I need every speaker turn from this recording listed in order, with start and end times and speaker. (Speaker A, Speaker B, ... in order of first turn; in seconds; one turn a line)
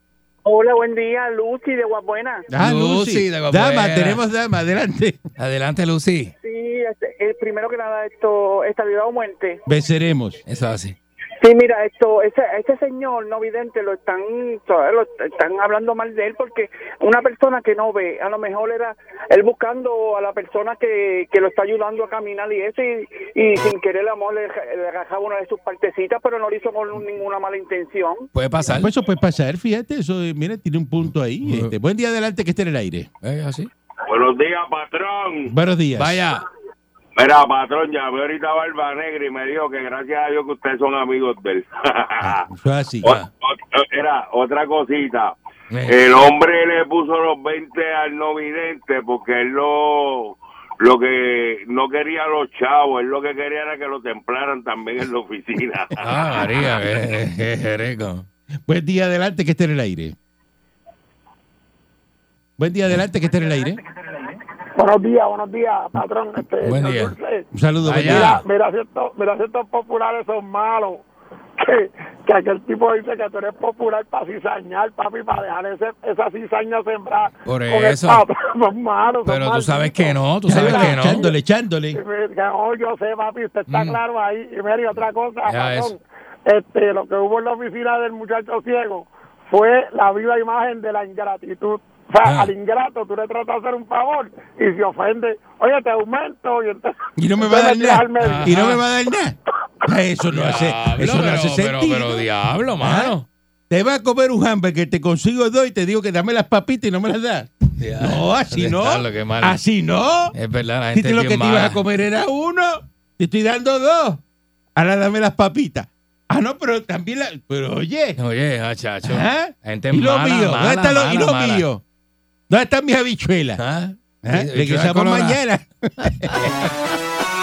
Speaker A: 0.5-2.5
Speaker B: 2.5-5.2
Speaker C: 2.6-4.2
Speaker C: 5.4-6.3
Speaker A: 6.4-9.6
Speaker B: 9.7-10.4
Speaker C: 10.4-11.0
Speaker A: 11.4-28.3
Speaker C: 28.3-28.9
Speaker B: 28.7-33.1
Speaker C: 31.4-31.7
Speaker C: 33.2-33.7
Speaker D: 34.1-35.5
Speaker B: 35.5-36.2
Speaker C: 36.0-36.4
Speaker D: 37.2-42.5
Speaker B: 42.2-43.1
Speaker D: 43.1-56.0
Speaker C: 45.7-46.0
Speaker C: 56.0-58.3
Speaker B: 58.7-60.1
Speaker B: 62.6-63.8
Speaker E: 64.8-67.5
Speaker C: 66.6-67.2
Speaker B: 67.5-68.4
Speaker C: 67.8-68.4
Speaker E: 68.0-71.0
Speaker E: 71.6-81.3
Speaker C: 77.5-78.2
Speaker C: 79.2-81.3
Speaker B: 80.5-82.0
Speaker E: 81.9-98.5
Speaker C: 83.7-84.0
Speaker C: 85.0-85.9
Speaker C: 92.2-92.5
Speaker B: 97.2-102.3
Speaker C: 98.2-98.8
Speaker C: 100.3-103.3
Speaker B: 102.8-103.2
Speaker B: 103.7-110.3
Speaker C: 107.8-109.6
Speaker C: 110.3-111.8
Speaker B: 110.9-114.2
Speaker B: 114.8-118.2
Speaker C: 118.2-121.7
Speaker B: 119.0-121.8
Speaker B: 122.5-123.6
Speaker C: 123.6-125.4
Speaker B: 124.2-126.4
Speaker C: 126.0-126.7